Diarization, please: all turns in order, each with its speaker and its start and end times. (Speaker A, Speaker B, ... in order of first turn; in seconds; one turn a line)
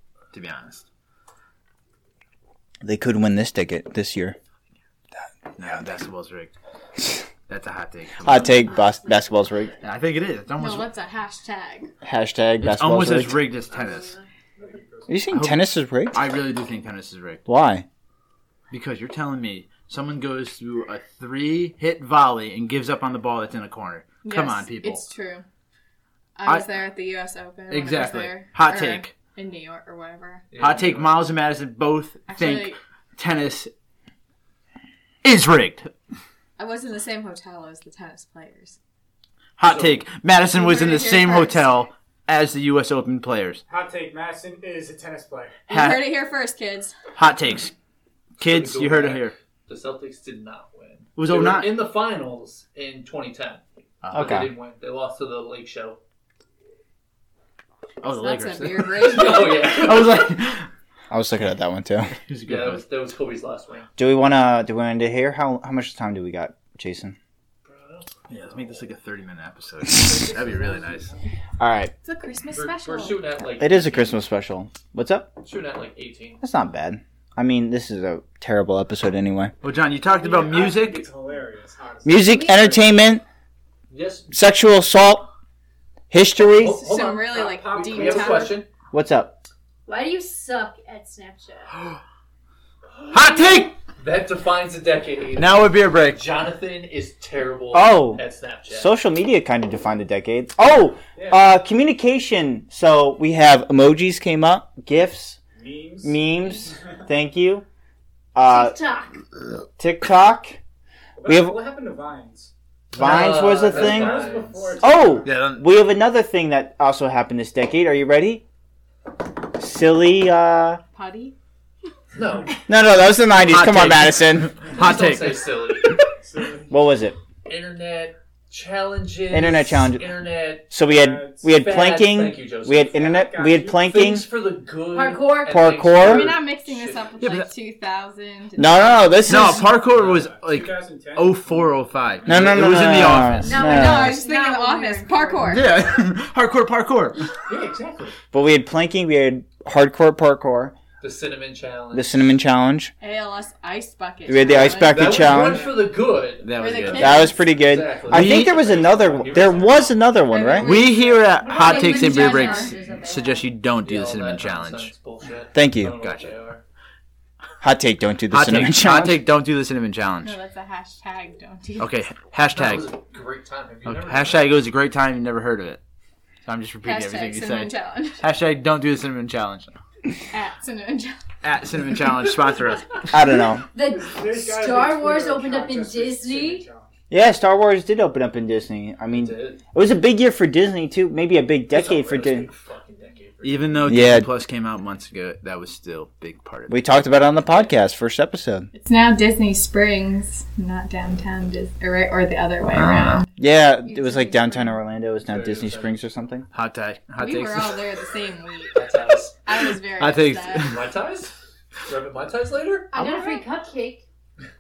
Speaker A: 0.3-0.8
Speaker B: 2.8-4.4
Speaker A: 5.6-6.5
Speaker A: 7.5-8.6
Speaker B: 8.2-9.7
Speaker A: 9.8-10.9
Speaker C: 10.6-11.9
Speaker B: 12.0-13.5
Speaker A: 12.6-14.1
Speaker D: 13.7-14.2
Speaker E: 14.6-15.2
Speaker B: 15.1-16.3
Speaker A: 15.3-17.4
Speaker B: 17.5-17.9
Speaker A: 18.7-25.1
Speaker C: 24.2-25.4
Speaker C: 26.4-30.5
Speaker A: 27.7-29.1
Speaker F: 30.5-31.3
Speaker A: 30.6-33.7
Speaker C: 32.3-32.8
Speaker A: 35.2-35.9
Speaker C: 36.6-38.8
Speaker A: 39.6-43.6
Speaker F: 39.6-40.0
Speaker C: 40.5-41.8
Speaker E: 43.7-45.7
Speaker C: 45.7-47.0
Speaker A: 45.7-46.2
Speaker A: 47.1-47.7
Speaker A: 48.4-49.3
Speaker F: 48.4-56.0
Speaker A: 51.1-51.8
Speaker A: 54.0-54.5
Speaker B: 54.1-54.5
Speaker A: 58.0-60.6
Speaker C: 58.0-59.8
Speaker F: 59.0-60.4
Speaker B: 61.1-62.1
Speaker A: 62.2-62.8
Speaker F: 62.4-63.9
Speaker B: 64.0-67.2
Speaker F: 67.7-68.2
Speaker A: 68.3-71.1
Speaker E: 70.0-71.2
Speaker B: 71.6-71.9
Speaker C: 72.0-73.3
Speaker F: 72.5-74.2
Speaker B: 73.6-75.3
Speaker F: 75.4-76.4
Speaker B: 76.4-79.5
Speaker A: 79.6-81.1
Speaker E: 80.0-82.6
Speaker B: 82.0-83.2
Speaker D: 82.3-82.9
Speaker F: 83.9-84.3
Speaker B: 84.3-85.3
Speaker B: 86.1-86.8
Speaker C: 86.6-88.6
Speaker F: 86.6-88.7
Speaker E: 87.3-88.5
Speaker B: 88.9-89.4
Speaker D: 89.9-91.7
Speaker A: 93.1-93.7
Speaker F: 94.0-98.9
Speaker A: 95.4-96.2
Speaker B: 97.7-105.4
Speaker E: 101.2-101.5
Speaker E: 105.6-106.8
Speaker B: 106.0-107.6
Speaker B: 108.3-108.8
Speaker D: 108.4-109.2
Speaker B: 109.8-110.6
Speaker E: 111.2-112.5
Speaker B: 111.2-111.6
Speaker F: 112.9-114.8
Speaker A: 113.0-113.5
Speaker B: 113.0-118.4
Speaker E: 113.3-115.4
Speaker A: 115.2-115.7
Speaker B: 119.6-120.8
Speaker C: 120.9-121.3
Speaker F: 122.1-122.6
Speaker B: 122.7-124.5
Speaker A: 123.5-125.5
Speaker F: 124.7-126.0
Speaker E: 126.1-126.8
Speaker B: 126.7-127.2
Speaker F: 127.5-130.7
Speaker B: 129.3-130.1
Speaker B: 130.7-134.2
Speaker E: 130.8-131.5
Speaker F: 131.5-133.1
Speaker E: 132.8-134.0
Speaker F: 133.8-137.1
Speaker D: 134.9-135.6
Speaker B: 135.5-136.4
Speaker C: 136.0-139.5
Speaker A: 137.2-137.5
Speaker B: 138.6-139.7
Speaker A: 139.3-143.7
Speaker E: 139.8-141.8
Speaker B: 142.3-144.2
Speaker D: 143.4-145.6
Speaker C: 143.5-145.7
Speaker A: 145.4-147.3
Speaker F: 147.5-148.2
Speaker B: 148.3-150.7
Speaker F: 151.0-152.4
Speaker B: 151.9-152.9
Speaker C: 153.0-155.2
Speaker B: 154.3-155.7
Speaker F: 154.9-160.1
Speaker E: 155.4-155.7
Speaker A: 156.4-157.3
Speaker C: 156.6-157.5
Speaker B: 156.9-160.8
Speaker A: 158.1-158.7
Speaker C: 160.3-161.0
Speaker D: 160.5-163.5
Speaker A: 160.6-164.9
Speaker C: 161.5-162.8
Speaker F: 163.8-166.6
Speaker B: 165.5-165.9
Speaker A: 166.0-166.3
Speaker B: 167.6-169.2
Speaker A: 168.3-170.4
Speaker C: 170.2-171.9
Speaker A: 171.8-172.9
Speaker F: 172.5-174.6
Speaker A: 173.8-175.8
Speaker A: 176.5-179.7
Speaker C: 176.8-178.2
Speaker C: 180.3-181.2
Speaker A: 181.4-183.1
Speaker B: 183.1-183.7
Speaker D: 183.7-186.6
Speaker E: 183.8-186.9
Speaker B: 187.1-192.5
Speaker F: 189.1-189.6
Speaker F: 191.7-194.0
Speaker A: 193.4-196.8
Speaker B: 193.9-194.3
Speaker B: 196.7-198.7
Speaker C: 198.7-203.3
Speaker A: 202.8-203.2
Speaker B: 203.4-206.5
Speaker D: 203.8-204.8
Speaker F: 205.2-206.0
Speaker A: 206.5-207.8
Speaker C: 207.2-208.8
Speaker F: 208.7-209.4
Speaker C: 209.4-210.7
Speaker A: 209.9-210.8
Speaker F: 210.6-211.3
Speaker F: 211.9-212.9
Speaker D: 212.9-214.0
Speaker A: 213.0-213.3